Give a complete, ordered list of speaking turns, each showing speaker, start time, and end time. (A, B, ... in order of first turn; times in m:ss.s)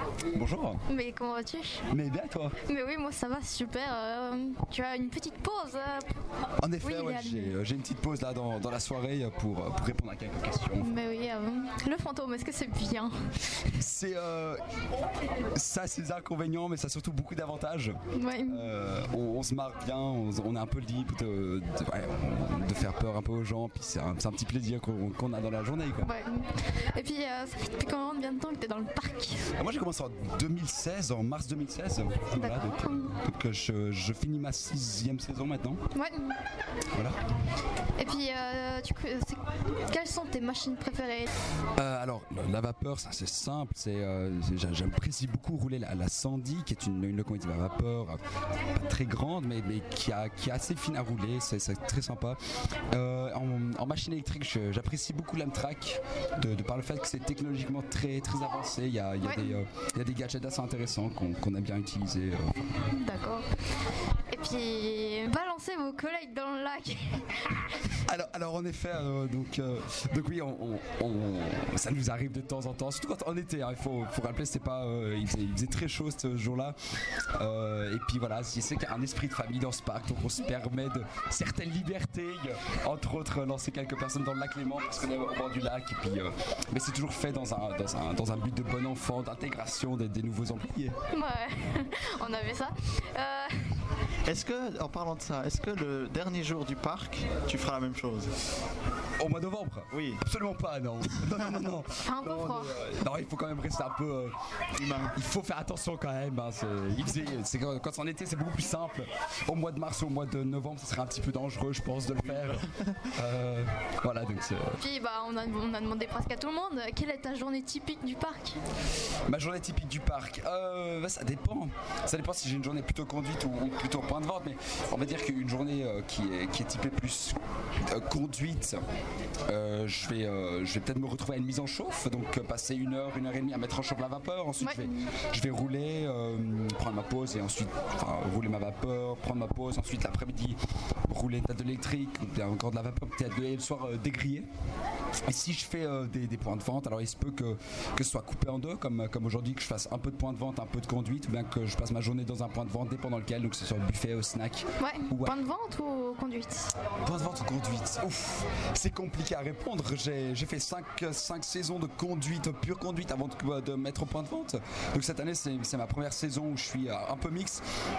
0:00.3-0:00.8 A
0:00.9-0:01.8 B
0:01.9-0:02.6 A
0:02.6-0:06.2 B
0:06.6-0:10.9 A
0:06.8-0:07.5 B
0:10.8-0:13.7 B
0:13.8-0:14.6 A
0:15.5-0:26.1 A
0:18.1-0:18.7 B
0:26.0-0:29.5 B
0:29.6-0:35.8 A
0:32.4-0:33.2 B
0:35.9-0:36.4 B
0:36.9-0:37.2 A
0:38.0-0:41.3 B
0:41.8-0:52.4 A
0:52.9-1:02.7 A
0:59.2-0:59.6 B
1:02.9-1:03.5 B
1:04.3-1:07.6 B
1:08.0-1:16.8 A
1:17.4-1:31.0 A
1:31.1-1:33.9 B
1:34.2-1:38.3 C
1:39.2-1:44.4 A
1:39.9-1:40.2 C
1:42.0-1:42.8 B
1:44.8-1:45.2 C
1:45.1-1:54.8 A
1:52.3-1:53.1 C
1:54.8-1:58.6 B
1:59.3-2:08.8 A
2:09.5-2:24.5 A
2:14.6-2:15.1 B
2:25.3-2:35.4 A
2:34.8-2:36.7 B
2:37.0-2:47.6 A